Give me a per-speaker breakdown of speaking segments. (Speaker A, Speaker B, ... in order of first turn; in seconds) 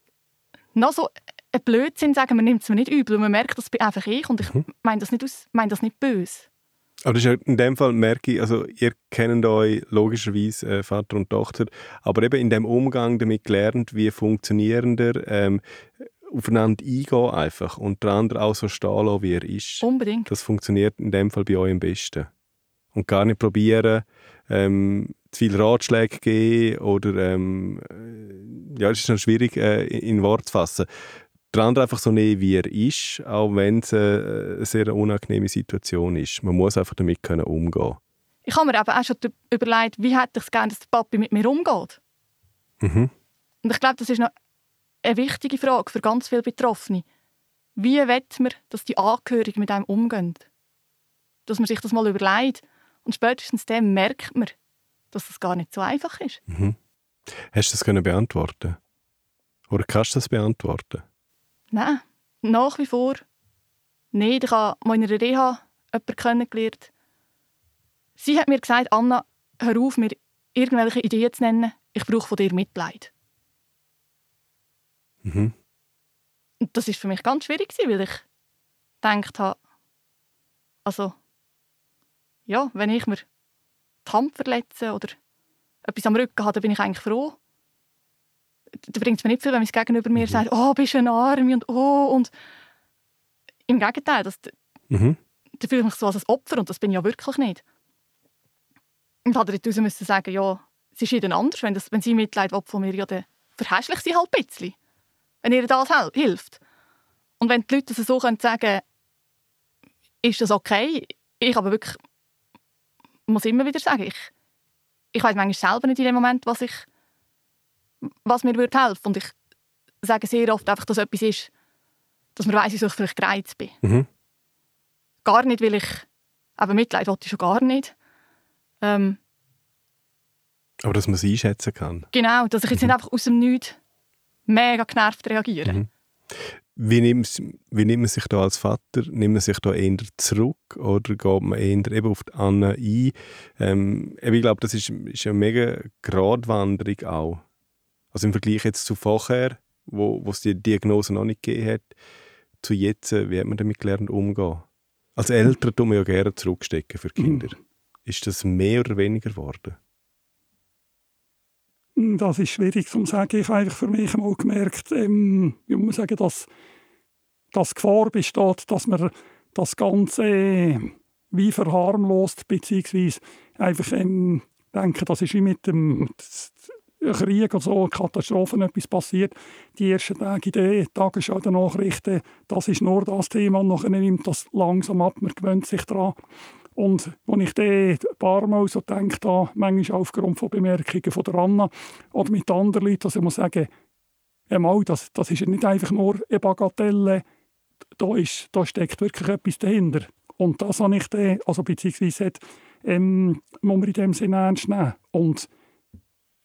Speaker A: 0.8-6.5, 19.8-20.3, 38.5-42.0, 43.6-44.3, 45.0-47.0, 47.8-50.5, 51.5-54.5, 55.1-56.4, 61.7-63.2, 64.1-66.9, 68.2-73.1, 76.6-78.2, 79.0-79.6, 80.8-81.2, 82.5-83.3, 84.0-85.2, 85.8-87.4, 88.8-92.3, 93.7-94.5, 95.6-97.6, 99.3-104.8, 105.4-106.6, 107.4-108.8, 110.2-112.0, 113.3-114.3, 115.1-116.9, 118.2-119.3, 120.0-121.5, 122.3-123.8, 125.2-126.1, 126.6-128.0, 128.8-129.2, 132.1-133.8, 134.5-135.8
Speaker B: 7.0-22.3, 22.9-30.9, 31.5-38.0, 42.8-43.1, 56.5-56.8, 57.5-58.8, 59.7-61.0, 75.2-75.5, 94.9-95.2, 123.8-124.1, 130.8-132.1, 136.4-147.4, 148.1-151.9, 152.6-159.8
Speaker C: 162.0-166.5, 167.5-186.2, 186.8-193.7, 194.5-197.2, 198.0-205.5